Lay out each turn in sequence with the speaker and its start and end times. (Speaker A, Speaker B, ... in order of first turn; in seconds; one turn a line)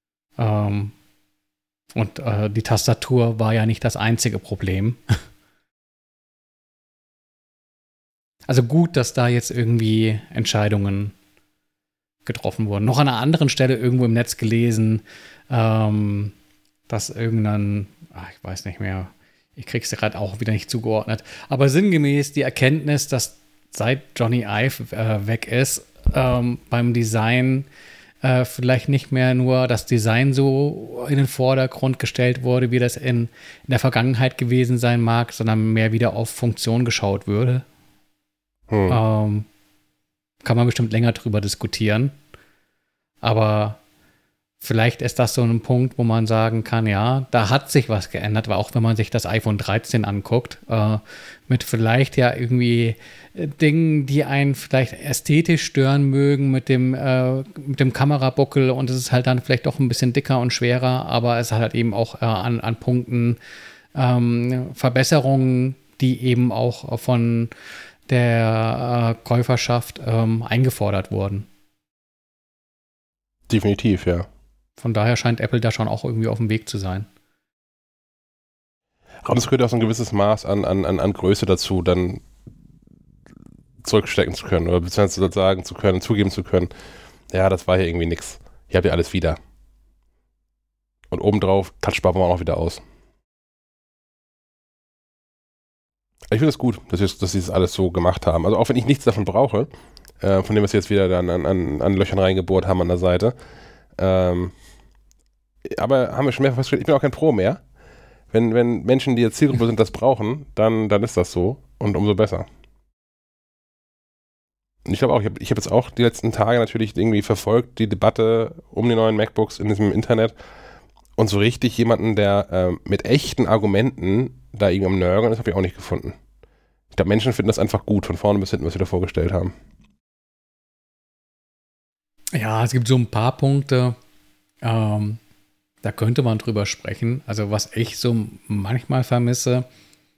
Speaker A: 0.4-0.9
Speaker A: 1.9-5.1
Speaker A: 8.5-11.2
Speaker A: 12.3-16.3
Speaker A: 16.9-27.7
Speaker A: 28.2-37.6
Speaker B: 38.7-39.0
Speaker A: 38.9-39.5
Speaker A: 40.4-42.1
Speaker A: 43.2-43.8
Speaker A: 44.6-63.4
Speaker A: 64.0-67.5
Speaker A: 68.1-71.5
Speaker B: 73.5-74.3
Speaker A: 74.8-77.1
Speaker B: 79.2-82.2
Speaker B: 83.8-86.7
Speaker B: 87.3-89.4
Speaker B: 91.1-92.8
Speaker B: 96.3-99.7
Speaker B: 100.2-103.3
Speaker B: 104.0-104.5
Speaker B: 105.7-107.6
Speaker B: 108.3-112.5
Speaker B: 114.9-120.3
Speaker B: 121.2-126.2
Speaker B: 126.9-129.5
Speaker A: 132.3-134.0
Speaker A: 134.6-135.2
Speaker A: 135.8-139.7